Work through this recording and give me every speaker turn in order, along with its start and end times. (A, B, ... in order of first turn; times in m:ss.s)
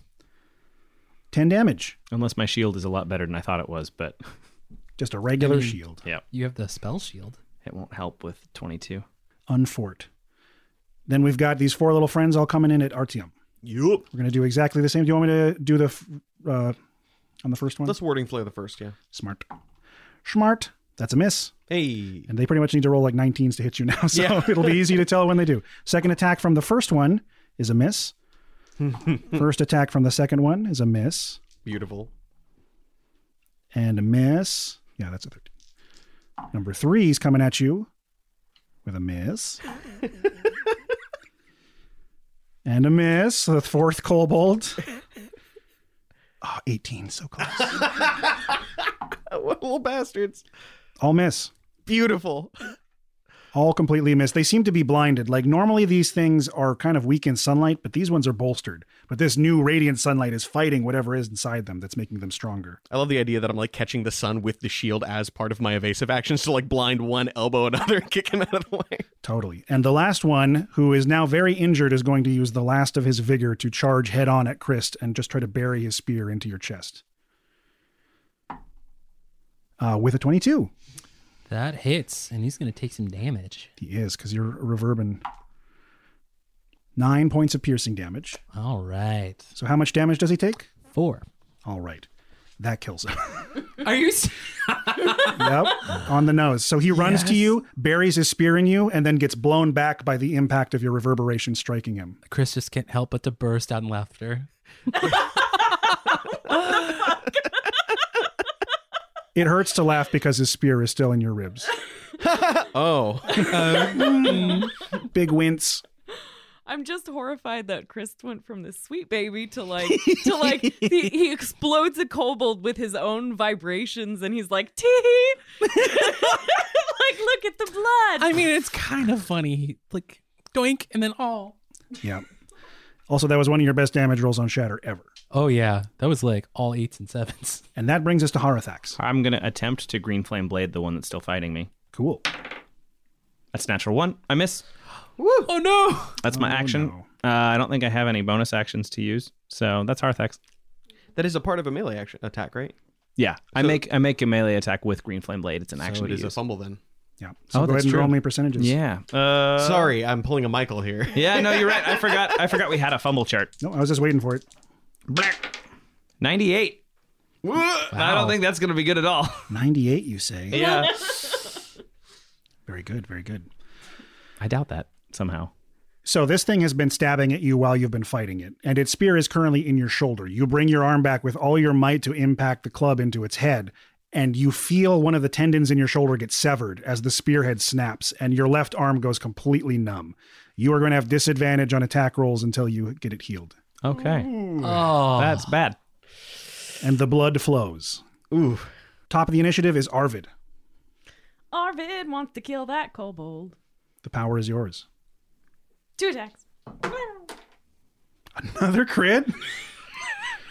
0:01.3-0:02.0 A
0:02.1-0:04.2 B
0:05.0-0:06.0 A
0:05.4-0:05.8 C
0:06.3-0:07.4 C
0:07.6-0:09.0 B
0:09.5-0:10.1 A
0:11.1-0:13.3 A
0:13.6-0:14.0 D
0:14.1-0:16.8 A
0:17.4-0:18.0 A
0:17.8-0:19.0 D
0:19.1-0:19.4 A
0:20.2-0:21.5 A
0:21.7-0:22.3 D
0:22.3-0:28.1 A
0:24.1-0:25.0 D
0:28.8-0:29.3 D
0:29.3-0:31.4 A
0:31.6-0:32.1 D
0:33.7-0:35.5 A
0:36.5-0:37.9 A
0:38.8-0:39.6 A
0:42.6-0:44.8 A
0:46.4-0:48.0 A
0:47.8-0:48.4 D
0:49.3-0:50.4 D
0:51.0-0:51.5 A
0:51.8-0:52.7 D
0:53.5-1:02.8 A
1:02.9-1:09.0 D
1:09.2-1:17.0 A
1:19.8-1:20.7 A
1:21.5-1:23.7 C
1:23.8-1:25.2 A
1:27.0-1:28.4 A
1:28.5-1:29.5 C
1:29.5-1:30.7 A
1:30.9-1:31.2 C
1:31.6-1:32.1 A
1:32.6-1:33.6 A
1:33.8-1:35.7 C
1:35.3-1:42.2 A
1:36.9-1:37.5 C
1:42.3-1:44.5 C
1:49.3-1:51.7 A
1:52.2-1:54.0 D
1:53.5-1:54.7 C
1:53.6-1:55.8 A
1:56.6-2:08.3 E
1:59.9-2:00.8 D
2:08.2-2:11.6 C
2:12.0-2:12.2 A
2:13.1-2:15.1 A
2:15.3-2:17.6 C
2:17.7-2:19.0 A
2:19.0-2:21.7 B
2:21.9-2:22.2 A
2:23.5-2:24.6 B
2:25.2-2:25.5 D
2:25.4-2:26.2 C
2:26.2-2:30.4 B
2:26.3-2:27.0 A
2:31.2-2:32.7 D
2:33.2-2:36.3 B
2:35.8-2:36.8 D
2:37.2-2:38.8 A
2:37.5-2:39.9 B
2:39.6-2:42.3 D
2:41.1-2:43.5 B
2:43.6-2:44.4 A
2:45.1-2:45.6 B
2:46.2-2:46.8 B
2:47.4-2:47.9 D
2:47.9-2:49.5 B
2:47.9-2:48.4 C
2:49.5-2:50.7 A
2:50.5-2:51.0 B
2:52.6-2:53.5 A
2:54.4-2:55.5 B
2:56.0-3:13.6 A
3:13.8-3:15.8 B
3:13.9-3:14.8 D
3:14.6-3:15.5 C
3:16.8-3:18.0 A
3:18.3-3:18.7 D
3:19.1-3:20.3 A
3:21.5-3:23.6 E
3:24.0-3:24.8 A
3:26.0-3:27.2 E
3:28.3-3:29.4 A